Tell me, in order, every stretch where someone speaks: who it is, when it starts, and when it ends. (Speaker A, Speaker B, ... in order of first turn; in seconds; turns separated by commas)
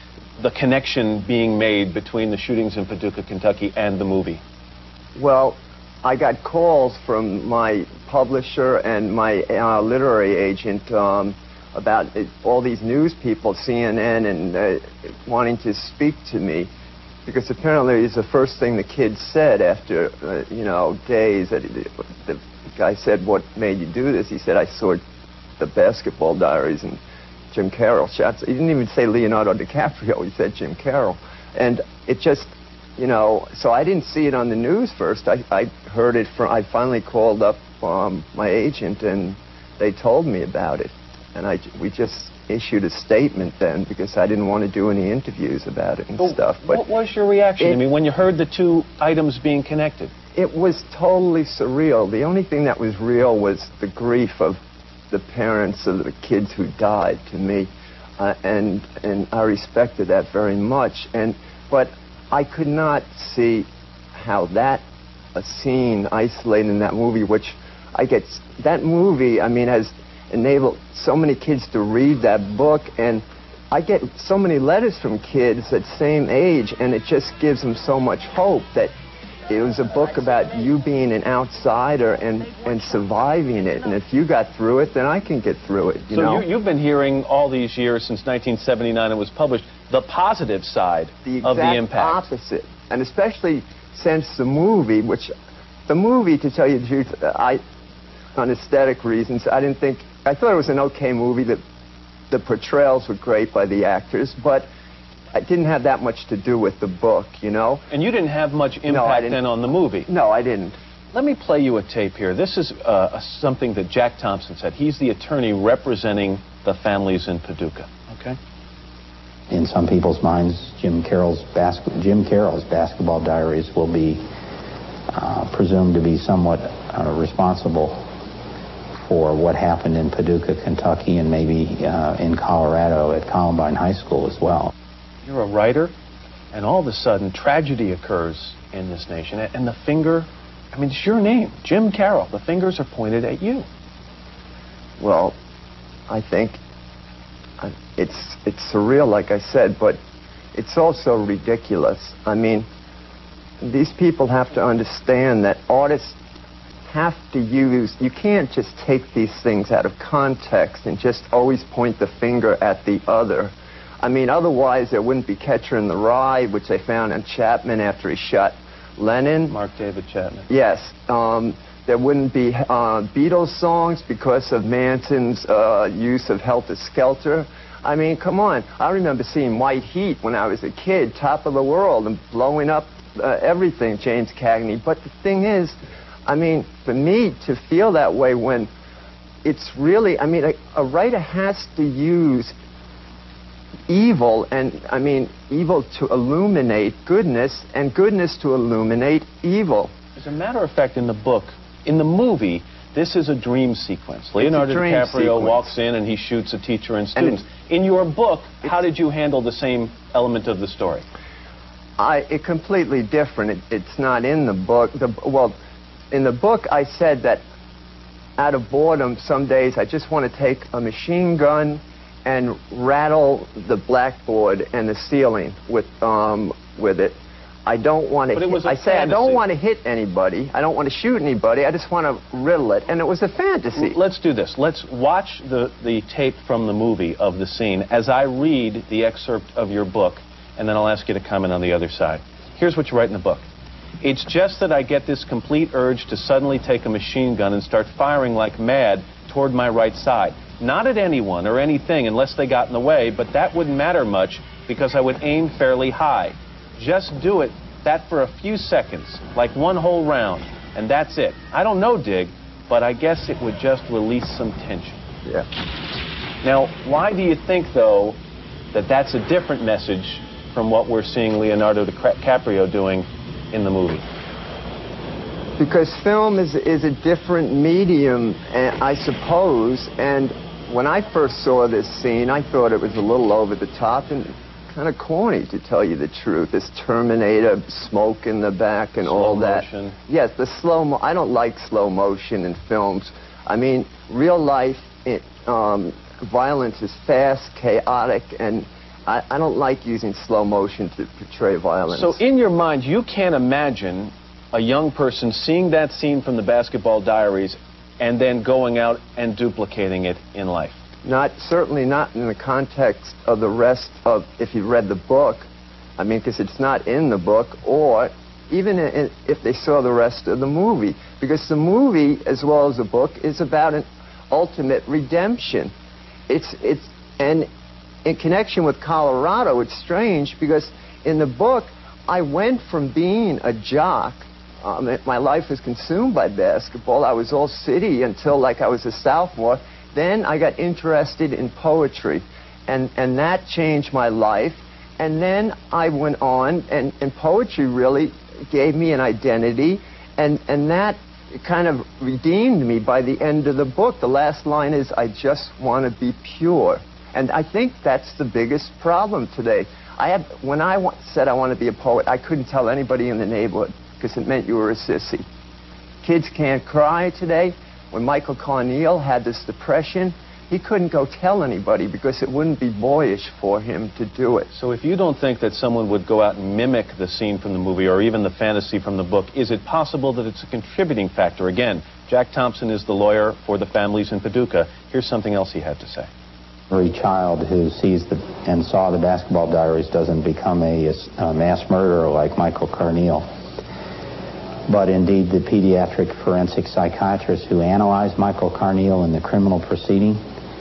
Speaker A: 0.4-4.4, Speaker B: 5.1-16.7, Speaker B: 17.2-25.0, Speaker B: 25.6-27.0, Speaker B: 27.5-46.8, Speaker A: 46.2-50.1, Speaker B: 50.3-54.6, Speaker B: 55.1-64.8, Speaker B: 65.3-78.9, Speaker B: 79.5-86.5, Speaker A: 86.1-92.3, Speaker B: 91.2-95.3, Speaker B: 95.9-97.6, Speaker B: 98.3-101.6, Speaker B: 102.3-104.7, Speaker B: 105.3-107.8, Speaker A: 107.9-110.1, Speaker B: 108.9-109.4, Speaker B: 110.1-110.8, Speaker A: 111.1-118.4, Speaker C: 119.5-124.2, Speaker C: 125.1-128.0, Speaker C: 129.0-134.7, Speaker A: 135.2-135.9, Speaker A: 136.5-143.7, Speaker B: 145.0-145.3, Speaker B: 146.1-146.6, Speaker B: 147.6-150.0, Speaker B: 150.5-152.7, Speaker B: 153.6-156.2, Speaker B: 156.9-169.6, Speaker A: 169.5-170.5, Speaker B: 170.5-188.7, Speaker B: 189.4-192.5, Speaker B: 193.9-199.9, Speaker A: 200.2-211.0, Speaker B: 204.4-205.7, Speaker B: 212.0-215.5, Speaker B: 216.1-217.4, Speaker B: 218.4-234.0, Speaker A: 228.3-229.4, Speaker A: 233.8-243.5, Speaker A: 244.0-265.0, Speaker A: 266.4-268.2, Speaker A: 268.7-274.1, Speaker B: 275.6-302.2, Speaker A: 289.0-290.0, Speaker A: 301.9-310.8, Speaker B: 311.0-325.7, Speaker B: 326.3-327.5, Speaker B: 328.1-365.2, Speaker B: 366.0-374.5, Speaker A: 374.5-386.1, Speaker C: 386.7-393.2, Speaker C: 394.7-400.2